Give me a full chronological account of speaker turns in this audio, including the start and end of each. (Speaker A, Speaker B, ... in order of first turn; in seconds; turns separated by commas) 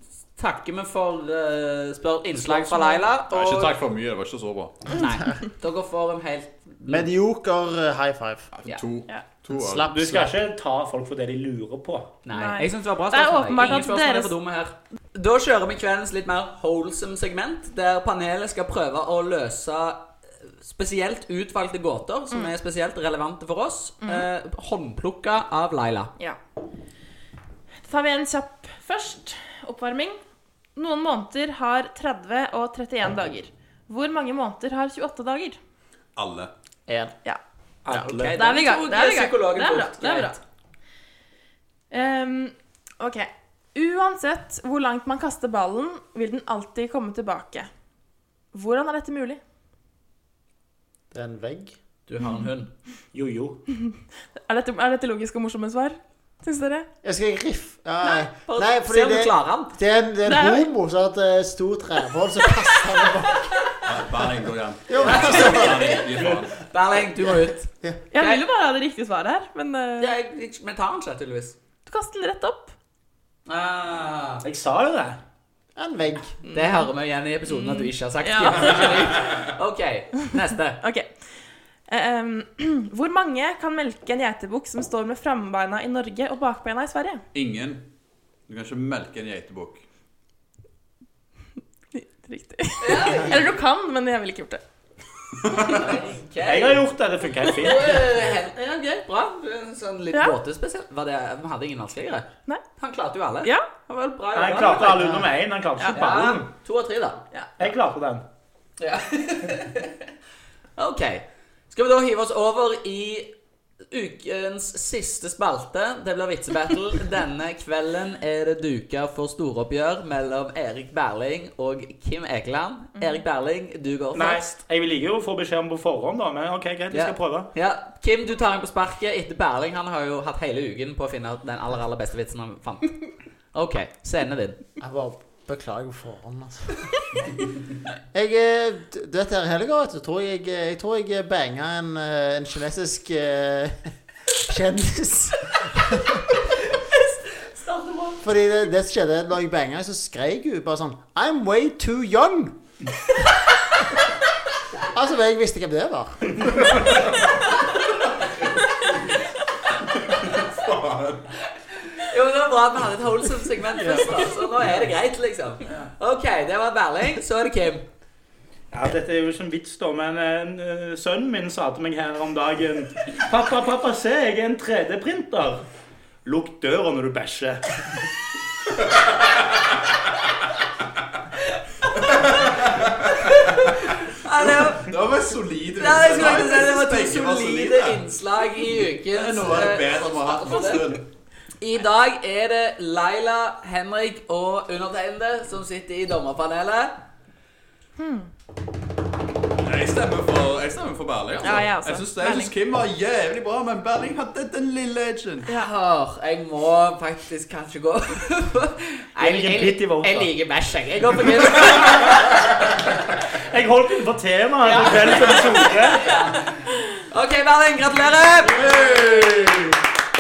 Speaker A: 0.4-3.8, Speaker B: 2.4-3.0, Speaker C: 3.3-4.9, Speaker A: 4.9-7.1, Speaker D: 6.9-8.5, Speaker C: 8.5-9.9, Speaker D: 9.5-10.4, Speaker E: 9.9-12.1, Speaker A: 12.2-20.1, Speaker B: 12.3-14.3, Speaker A: 20.6-26.1, Speaker B: 27.8-30.2, Speaker B: 30.8-35.6, Speaker C: 36.2-36.5, Speaker D: 36.9-37.1, Speaker E: 37.9-38.4, Speaker A: 37.9-40.4, Speaker B: 38.3-40.4, Speaker B: 41.9-47.7, Speaker B: 48.5-49.4, Speaker D: 51.1-51.8, Speaker A: 52.1-52.7, Speaker E: 53.1-53.6, Speaker B: 54.5-56.9, Speaker D: 57.0-63.5, Speaker A: 58.0-59.8, Speaker B: 60.3-60.7, Speaker B: 62.6-63.1, Speaker C: 63.8-66.7, Speaker D: 64.9-66.0, Speaker A: 65.0-68.4, Speaker B: 68.1-70.1, Speaker A: 70.0-71.6, Speaker B: 71.9-72.7, Speaker A: 73.5-74.4, Speaker E: 74.4-75.2, Speaker D: 75.8-76.4, Speaker B: 76.4-76.9, Speaker A: 76.5-80.8, Speaker B: 77.5-79.1, Speaker B: 80.8-81.1, Speaker B: 81.9-87.2, Speaker C: 87.3-87.9, Speaker C: 88.5-89.8, Speaker B: 91.9-94.6, Speaker A: 92.8-93.4, Speaker C: 95.5-95.8, Speaker A: 95.6-96.8, Speaker E: 96.4-98.0, Speaker A: 97.5-105.3, Speaker E: 104.3-106.5, Speaker A: 105.9-107.2, Speaker E: 107.6-108.2, Speaker A: 108.8-110.1, Speaker A: 110.8-113.3, Speaker A: 113.9-124.4, Speaker E: 124.1-127.5, Speaker A: 126.9-133.0, Speaker A: 133.5-134.6, Speaker D: 134.8-136.9, Speaker D: 138.1-143.8, Speaker D: 144.3-146.2, Speaker A: 146.6-148.2, Speaker D: 148.2-152.6, Speaker D: 154.9-156.7, Speaker C: 156.6-157.0, Speaker C: 160.1-161.3, Speaker A: 162.0-167.8, Speaker E: 168.7-175.6, Speaker E: 176.2-177.6, Speaker C: 182.0-183.8, Speaker A: 183.2-184.9, Speaker C: 184.3-188.1, Speaker A: 185.8-190.8, Speaker C: 189.1-191.1, Speaker A: 191.6-197.0, Speaker B: 198.0-198.3, Speaker C: 199.6-205.5, Speaker B: 201.4-202.5, Speaker A: 205.5-212.6, Speaker E: 209.2-210.3, Speaker E: 213.3-216.1, Speaker A: 214.6-219.3, Speaker C: 218.6-219.7